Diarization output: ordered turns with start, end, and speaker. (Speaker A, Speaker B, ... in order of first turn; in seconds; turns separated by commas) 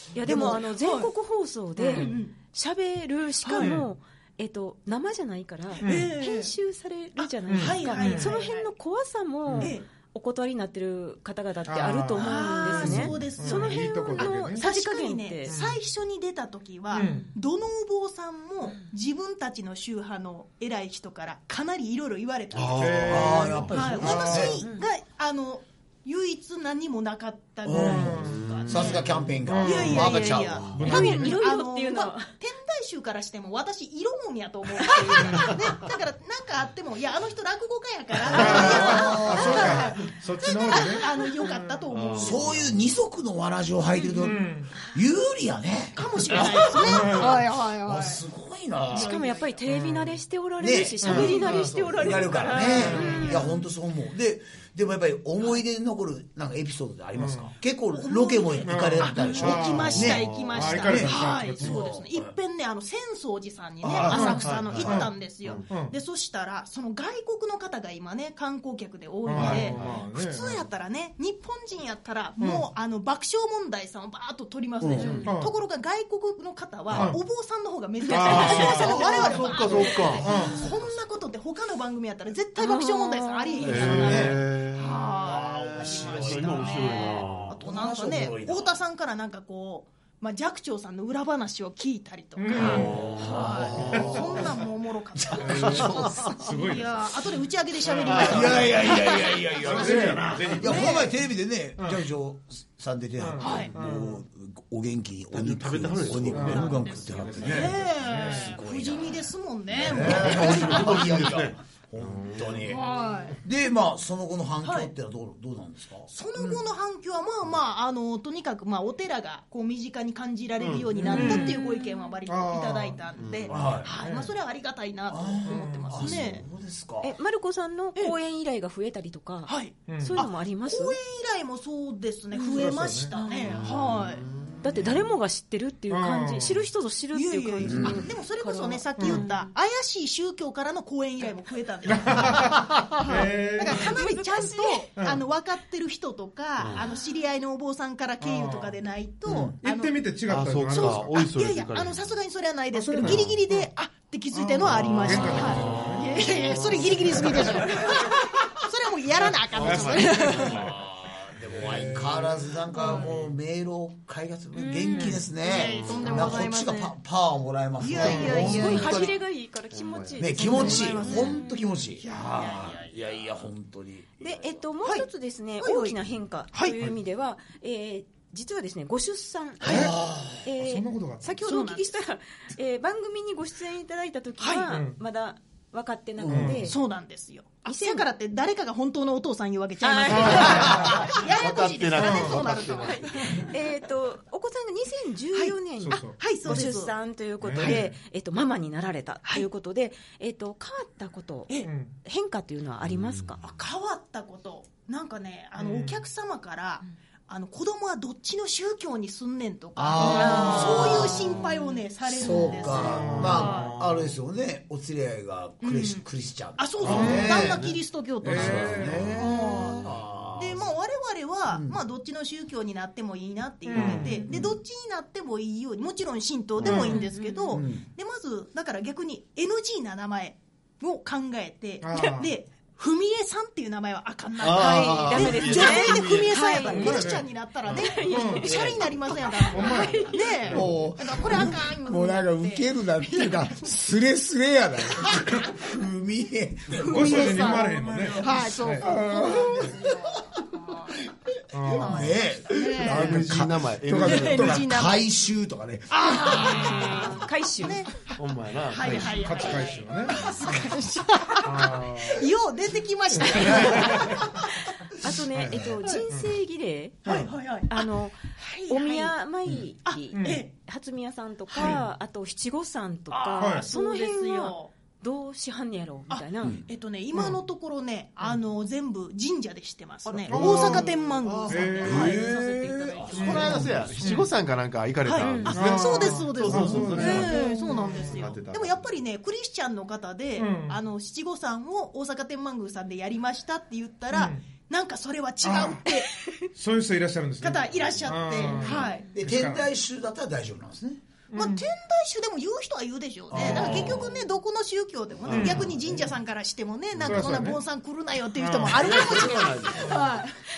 Speaker A: 0.1-15.5, Speaker B: 0.2-0.6, Speaker C: 0.2-1.1, Speaker C: 1.8-2.3, Speaker C: 3.4-3.8, Speaker D: 3.6-3.9, Speaker C: 5.8-6.5, Speaker D: 5.8-6.1, Speaker C: 7.2-8.7, Speaker D: 7.5-8.3, Speaker D: 9.4-9.7, Speaker C: 9.6-9.8, Speaker D: 11.7-14.6, Speaker C: 12.2-29.0, Speaker D: 15.4-15.8, Speaker D: 16.9-17.3, Speaker A: 17.0-17.3, Speaker E: 22.5-23.9, Speaker D: 22.8-24.6, Speaker B: 23.1-24.6, Speaker A: 24.6-24.9, Speaker B: 27.6-30.8, Speaker D: 27.7-28.9, Speaker E: 28.1-29.3, Speaker D: 29.4-31.4, Speaker C: 29.6-42.5, Speaker E: 30.2-30.8, Speaker A: 30.8-32.3, Speaker D: 38.3-41.8, Speaker B: 38.4-39.9, Speaker E: 41.9-42.9, Speaker B: 42.2-49.1, Speaker D: 44.2-44.7, Speaker C: 45.9-48.2, Speaker D: 46.8-47.5, Speaker C: 48.9-49.6, Speaker A: 48.9-53.5, Speaker B: 50.6-62.3, Speaker D: 51.0-51.4, Speaker C: 51.0-53.6, Speaker E: 51.4-52.2, Speaker D: 52.8-53.2, Speaker D: 57.1-57.5, Speaker C: 57.9-101.0, Speaker D: 58.6-61.9, Speaker E: 59.8-61.0, Speaker E: 63.8-65.7, Speaker B: 63.9-64.2, Speaker D: 63.9-65.1, Speaker D: 65.7-65.9, Speaker D: 69.2-70.6, Speaker E: 69.3-70.0, Speaker D: 72.4-72.7, Speaker B: 74.8-75.2, Speaker E: 75.0-75.3, Speaker A: 75.0-75.3, Speaker D: 75.2-75.5, Speaker D: 76.9-77.2, Speaker D: 78.1-79.2, Speaker A: 78.1-79.0, Speaker E: 78.1-81.0, Speaker B: 78.4-80.7, Speaker D: 80.2-80.7, Speaker A: 82.6-84.0, Speaker E: 83.6-85.3, Speaker B: 83.8-84.4, Speaker D: 83.8-84.2, Speaker B: 85.2-88.8, Speaker E: 85.8-87.6, Speaker D: 92.4-93.2, Speaker E: 92.5-94.2, Speaker B: 92.6-94.5, Speaker D: 93.8-94.5, Speaker B: 95.2-96.2, Speaker D: 95.4-97.0, Speaker E: 95.5-96.3, Speaker D: 97.8-98.9, Speaker E: 98.0-98.8, Speaker B: 98.1-112.9, Speaker D: 99.6-101.1, Speaker E: 99.8-100.6, Speaker D: 101.8-102.0, Speaker D: 103.2-104.2, Speaker C: 103.4-103.7, Speaker E: 105.3-107.6, Speaker D: 106.3-108.5, Speaker C: 106.3-111.3, Speaker E: 109.8-112.8, Speaker C: 112.6-113.4, Speaker B: 113.4-116.6, Speaker C: 114.6-114.9, Speaker C: 116.1-126.4, Speaker E: 120.6-121.3, Speaker D: 121.0-121.6, Speaker A: 121.1-122.2, Speaker D: 122.2-123.0, Speaker E: 123.1-123.6, Speaker B: 123.5-123.9, Speaker D: 123.9-124.3, Speaker B: 125.1-127.1, Speaker D: 125.5-126.0, Speaker A: 127.0-131.0, Speaker C: 129.5-134.2, Speaker D: 129.9-130.2, Speaker A: 132.3-133.6, Speaker D: 132.5-133.1, Speaker E: 133.4-134.8, Speaker A: 134.6-139.5, Speaker D: 135.9-136.6, Speaker C: 137.1-150.1, Speaker B: 137.6-138.1, Speaker D: 139.0-139.2, Speaker D: 141.8-143.9, Speaker A: 143.6-144.8, Speaker D: 144.9-145.2, Speaker E: 146.6-146.8, Speaker D: 148.2-148.8, Speaker B: 149.3-149.5, Speaker D: 149.4-151.3, Speaker E: 150.3-152.1, Speaker C: 150.7-160.6, Speaker D: 152.7-153.7, Speaker E: 153.0-153.3, Speaker D: 154.3-156.3, Speaker E: 154.6-157.8, Speaker D: 157.2-157.9, Speaker E: 159.5-160.7, Speaker D: 159.5-160.8, Speaker B: 160.2-169.1, Speaker D: 161.6-162.5, Speaker E: 161.7-162.1, Speaker C: 162.7-163.1, Speaker C: 164.7-166.9, Speaker D: 164.9-165.2, Speaker E: 165.6-166.3, Speaker C: 167.8-169.1, Speaker D: 168.0-168.4, Speaker A: 168.1-171.6, Speaker E: 169.7-170.2, Speaker B: 170.2-174.6, Speaker C: 170.3-171.4, Speaker C: 172.0-173.0, Speaker A: 174.2-179.9, Speaker C: 175.6-176.0, Speaker B: 179.6-180.5, Speaker C: 179.6-179.9, Speaker D: 179.7-179.9, Speaker A: 180.4-186.8, Speaker D: 180.5-181.4, Speaker C: 181.4-181.9, Speaker C: 184.4-184.7, Speaker D: 184.7-185.0, Speaker B: 186.2-186.6, Speaker D: 186.3-186.7, Speaker C: 186.6-193.6, Speaker A: 187.7-188.1, Speaker A: 189.8-191.0, Speaker D: 190.1-191.1, Speaker E: 190.4-193.4, Speaker D: 192.0-192.4, Speaker A: 192.8-203.4, Speaker C: 195.3-197.0, Speaker D: 195.8-196.7, Speaker D: 197.4-197.8, Speaker D: 201.6-201.9, Speaker E: 202.8-203.3, Speaker C: 203.4-213.7, Speaker D: 205.6-206.0, Speaker B: 209.8-211.4, Speaker A: 210.0-211.7, Speaker B: 212.1-217.6, Speaker D: 212.7-214.1, Speaker E: 213.1-213.4, Speaker C: 215.6-216.0, Speaker C: 216.6-243.5, Speaker E: 216.8-217.8, Speaker D: 216.8-217.5, Speaker B: 218.2-220.7, Speaker D: 218.2-219.2, Speaker E: 218.3-219.2, Speaker B: 221.5-221.8, Speaker D: 223.7-224.3, Speaker B: 223.8-224.6, Speaker A: 223.9-224.2, Speaker D: 226.6-227.1, Speaker A: 226.7-227.6, Speaker B: 227.5-227.9, Speaker D: 231.8-232.3, Speaker E: 234.4-236.6, Speaker A: 234.4-237.2, Speaker D: 236.7-237.3, Speaker A: 237.7-240.3, Speaker D: 238.0-238.6, Speaker E: 238.4-238.9, Speaker D: 239.5-241.0, Speaker B: 240.5-250.0, Speaker C: 245.0-245.3, Speaker C: 246.8-250.9, Speaker D: 246.8-249.8, Speaker D: 251.5-252.2, Speaker B: 251.6-257.1, Speaker C: 251.7-253.2, Speaker E: 252.8-254.7, Speaker D: 253.0-254.6, Speaker C: 254.0-255.0, Speaker C: 255.9-258.2, Speaker A: 256.5-257.8, Speaker E: 258.1-259.4, Speaker C: 258.7-264.4, Speaker D: 259.1-260.2, Speaker D: 261.4-262.2, Speaker D: 263.3-264.2, Speaker B: 263.4-263.8, Speaker A: 265.0-276.6, Speaker D: 265.4-266.3, Speaker C: 267.0-269.1, Speaker C: 269.8-270.5, Speaker D: 270.1-270.4, Speaker C: 271.5-271.8, Speaker C: 273.1-274.7, Speaker D: 273.4-273.7, Speaker C: 276.1-282.3, Speaker D: 277.1-277.4, Speaker E: 280.0-282.1, Speaker D: 280.3-280.9, Speaker D: 281.5-282.2, Speaker A: 281.6-283.4, Speaker B: 281.8-284.2, Speaker E: 283.1-288.8, Speaker D: 283.1-284.3, Speaker C: 283.2-283.6, Speaker C: 285.0-296.1, Speaker A: 285.2-285.6, Speaker D: 285.5-288.3, Speaker B: 286.5-286.8, Speaker A: 287.2-287.5, Speaker D: 290.4-290.8, Speaker D: 294.1-294.5, Speaker D: 295.4-299.7, Speaker A: 296.1-296.4, Speaker C: 297.4-299.1, Speaker A: 298.6-299.0, Speaker B: 299.1-301.0, Speaker D: 301.3-301.6, Speaker C: 301.3-310.4, Speaker B: 303.3-304.1, Speaker E: 303.4-304.1, Speaker E: 305.2-305.7, Speaker D: 305.3-305.7, Speaker D: 307.0-307.6, Speaker D: 308.4-308.8, Speaker E: 308.7-310.0